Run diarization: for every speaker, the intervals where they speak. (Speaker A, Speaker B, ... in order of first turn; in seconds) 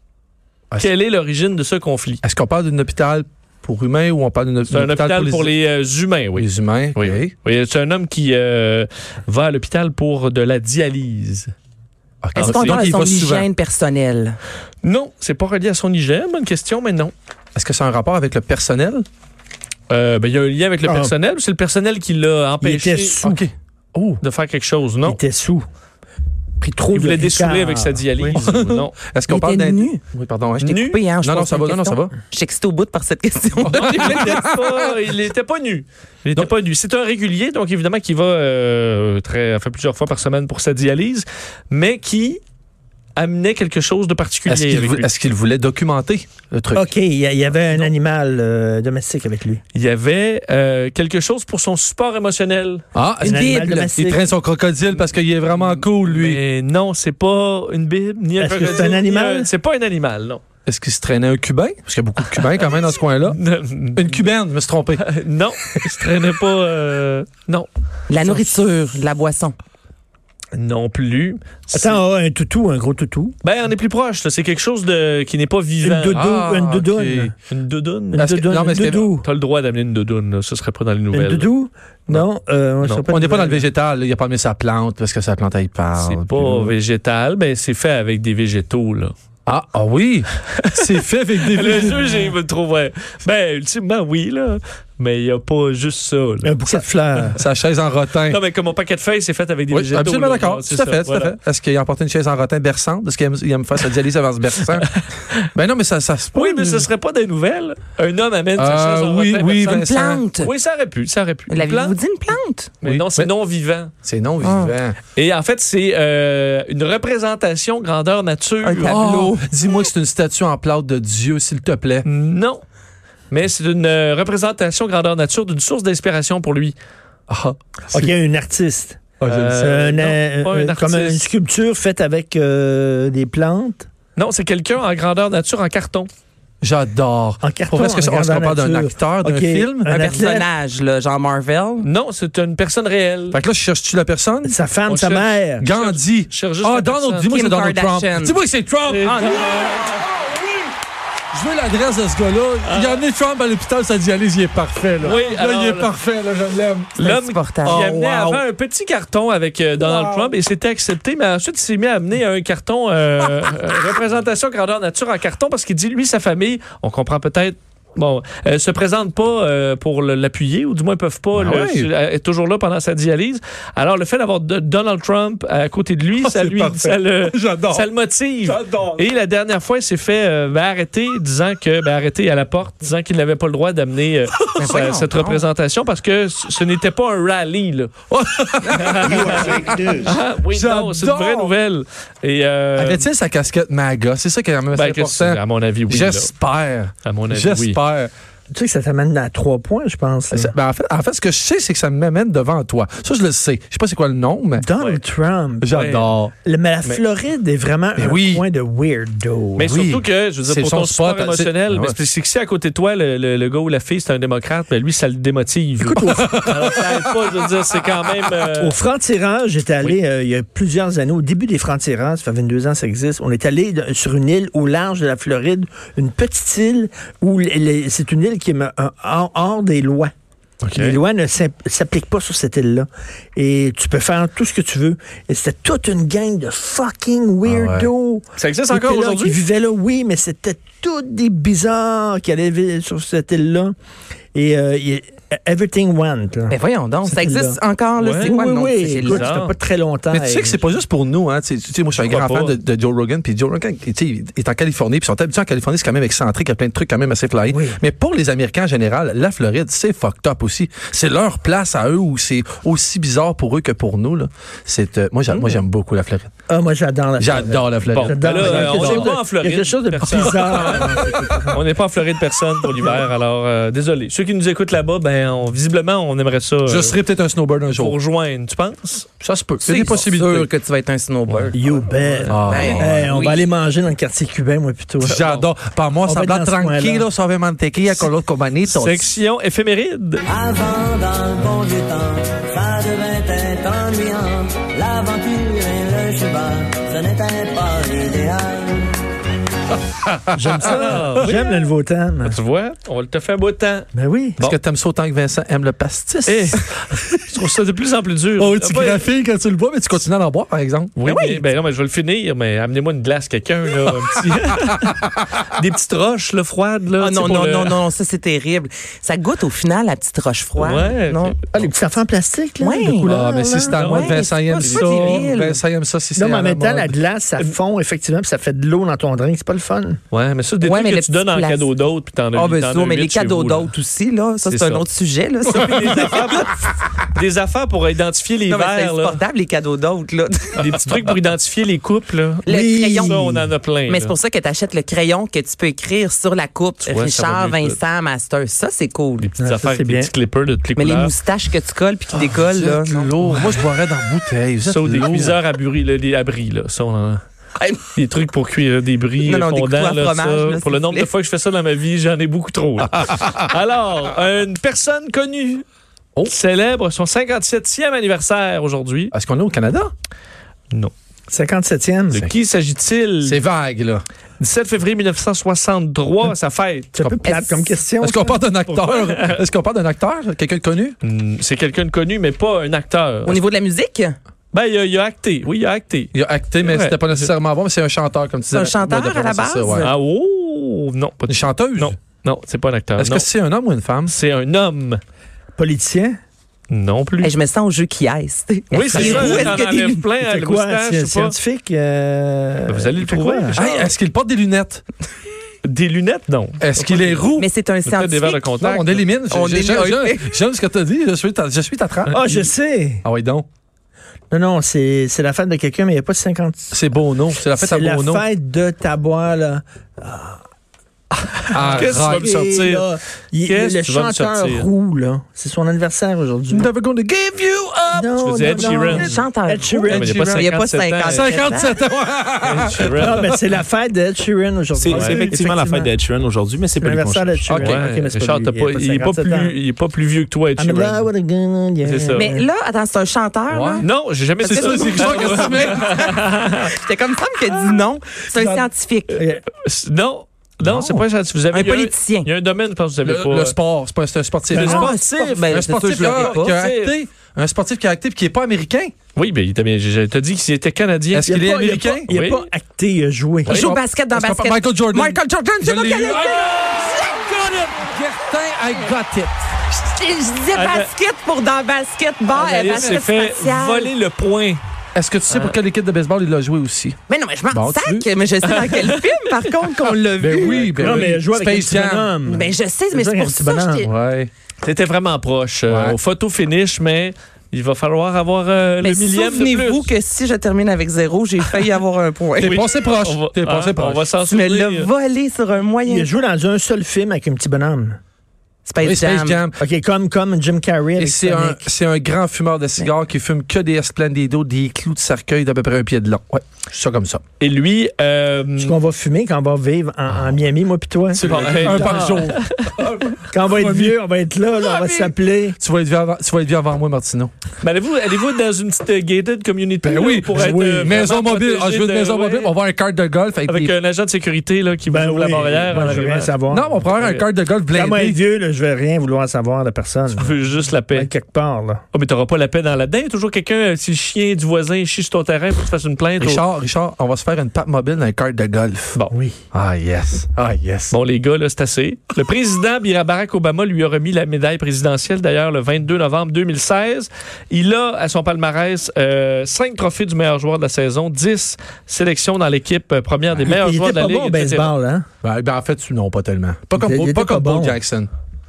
Speaker A: 0.8-2.2, 4.7-11.5, 12.3-12.8, 14.8-17.1, 19.9-23.2, 24.2-25.2, 26.9-28.9, 30.6-31.0, 33.6-42.4, 43.1-45.1, 49.7-52.8, 54.9-60.4, 62.4-64.2, 65.0-67.7, 68.2-68.5, 70.5-72.0, 73.4-76.3, 77.5-78.4, 79.2-81.5, 82.8-83.1, 86.0-89.1, 91.5-97.3, 98.3-101.3, 104.7-105.3, 106.3-112.0, 112.8-113.9, 115.2-119.0, 122.0-122.6, 123.3-126.8, 129.2-131.3, 134.2-136.1, 141.8-143.4, 144.8-147.3, 148.8-150.0, 152.6-153.0, 155.0-155.9, 157.0-187.9, 188.7-193.1, 194.7-196.3, 197.0-197.8, 204.8-205.0, 205.7-206.1, 209.6-218.8, 230.6-231.0, 238.4-239.4, 248.0-248.3, 249.0-249.6, 252.0-252.6, 267.9-277.0, 277.7-279.1, 282.1-282.4, 285.0-285.5, 288.7-290.2, 300.6-301.6, 302.2-304.6, 306.2-309.1, 310.9-317.8, 320.6-321.4, 323.7-325.3, 330.1-333.7, 334.4-334.8, 335.5-339.2, 340.6-342.4, 343.0-344.1, 346.8-347.8, 349.2-351.1, 353.2-353.6, 354.6-357.2, 357.9-365.6, 366.3-369.1, 372.1-373.4, 374.4-376.9, 378.8-379.4, 381.0-383.4, 384.5-387.3, 389.8-393.3, 394.1-395.0, 396.7-397.3, 398.7-401.4, 402.7-403.9, 405.6-407.3, 407.8-409.0, 421.7-422.9, 423.4-424.7, 428.2-429.2, 429.9-431.5, 432.4-433.2, 434.9-435.2, 437.5-441.1, 441.8-442.3, 443.8-446.6, 449.1-453.5, 454.5-456.9, 459.1-461.3, 462.1-462.5, 470.5-470.9, 472.3-474.6, 475.3-475.6, 478.4-479.6, 484.6-489.9, 492.4-494.9, 507.4-508.8, 511.2-512.6, 517.6-522.5, 523.5-526.3, 527.0-527.2, 530.1-531.1, 531.9-536.4, 540.9-554.7
Speaker B: 2.2-5.5, 6.3-7.3, 12.2-13.5, 17.5-19.1, 23.2-24.2, 28.2-32.1, 33.6-34.8, 44.5-46.9, 52.9-56.4, 60.6-63.4, 64.0-65.0, 76.1-77.3, 78.1-79.1, 83.1-86.7, 89.5-92.1, 97.3-98.4, 99.7-104.9, 105.5-106.9, 108.5-110.2, 112.8-113.3, 114.0-115.0, 118.8-122.1, 129.2-129.5, 136.6-139.9, 143.3-144.6, 145.6-150.6, 151.3-156.9, 157.6-158.4, 159.8-160.3, 171.3-171.9, 176.2-177.9, 178.4-179.0, 184.4-185.0, 188.1-191.5, 192.8-198.1, 200.3-204.7, 205.6-206.3, 207.9-208.4, 209.7-211.9, 215.9-217.1, 237.4-237.9, 250.1-266.3, 267.2-269.2, 270.0-271.5, 276.6-277.9, 279.2-280.5, 282.3-283.0, 285.0-289.1, 300.0-300.6, 304.4-306.6, 308.4-310.9, 322.9-326.9, 352.1-355.4, 369.1-369.9, 373.2-374.0, 377.0-377.2, 378.0-381.0, 386.1-389.9, 391.3-391.9, 393.0-394.1, 403.5-404.8, 406.6-407.5, 408.6-412.5, 413.0-413.4, 416.7-418.3, 421.5-422.3, 426.5-428.8, 429.9-430.5, 431.0-433.4, 437.5-437.8, 443.5-443.9, 444.4-446.0, 450.6-451.0, 453.0-454.9, 455.5-458.9, 461.1-462.1, 463.5-469.5, 474.9-477.0, 477.5-478.1, 480.2-482.1, 483.8-484.3, 485.7-486.0, 492.4-494.1, 498.8-499.6, 501.0-507.2, 511.1-514.0, 514.6-517.3, 519.8-523.7, 526.5-528.2, 536.2-539.0, 539.5-541.0, 555.2-558.1
Speaker C: 12.4-14.4, 29.3-30.0, 30.6-34.3, 68.1-69.5, 109.7-110.5, 111.5-112.7, 114.4-114.8, 118.6-119.5, 139.8-141.9, 147.2-148.4, 149.0-149.5, 156.9-157.9, 184.6-185.4, 246.5-249.2, 279.6-283.5, 311.0-311.5, 317.0-321.4, 322.6-323.1, 323.9-325.6, 330.6-331.7, 332.3-336.6, 338.5-340.7, 342.4-343.3, 343.9-349.3, 350.7-353.1, 357.6-357.8, 359.2-361.1, 377.2-377.8, 383.2-384.2, 388.5-389.9, 397.2-400.1, 407.3-410.4, 428.9-431.8, 442.1-443.9, 444.4-449.2, 451.5-452.3, 455.0-456.6, 463.5-467.2, 469.7-473.9, 477.1-481.0, 482.2-483.9, 488.8-492.6, 494.2-496.1, 498.6-499.4
Speaker D: 20.8-21.1, 22.6-23.5, 25.0-25.6, 26.6-28.0, 46.7-49.6, 53.2-54.3, 58.4-59.5, 71.7-73.3, 75.8-77.3, 78.1-79.2, 81.1-83.7, 96.4-97.4, 127.9-133.9, 137.4-140.5, 144.4-145.7, 198.5-200.5, 204.6-205.8, 206.4-209.8, 215.8-216.8, 218.5-230.1, 230.7-243.7, 244.3-247.6, 248.2-250.7, 257.5-257.8, 265.3-265.6, 266.5-271.6, 281.5-285.2, 286.0-287.1, 300.3-302.4, 303.9-304.4, 321.5-323.9, 326.1-330.0, 342.5-343.5, 349.4-350.1, 371.3-372.3, 376.9-378.6, 395.6-396.1, 398.7-399.6, 400.1-403.6, 412.1-413.0, 414.3-416.8, 417.4-420.4, 421.1-426.7, 427.9-430.2, 432.9-435.9, 436.8-439.6, 440.6-442.5, 448.3-449.4, 454.5-455.4, 461.2-463.6, 480.4-483.9, 495.9-498.0, 499.6-501.7, 508.6-512.2, 513.3-515.6, 520.5-521.0, 524.9-526.9, 527.7-530.4, 530.9-531.8, 539.1-539.4, 553.4-555.0, 556.8-557.8
Speaker E: 290.3-298.7
Speaker F: 434.7-437.8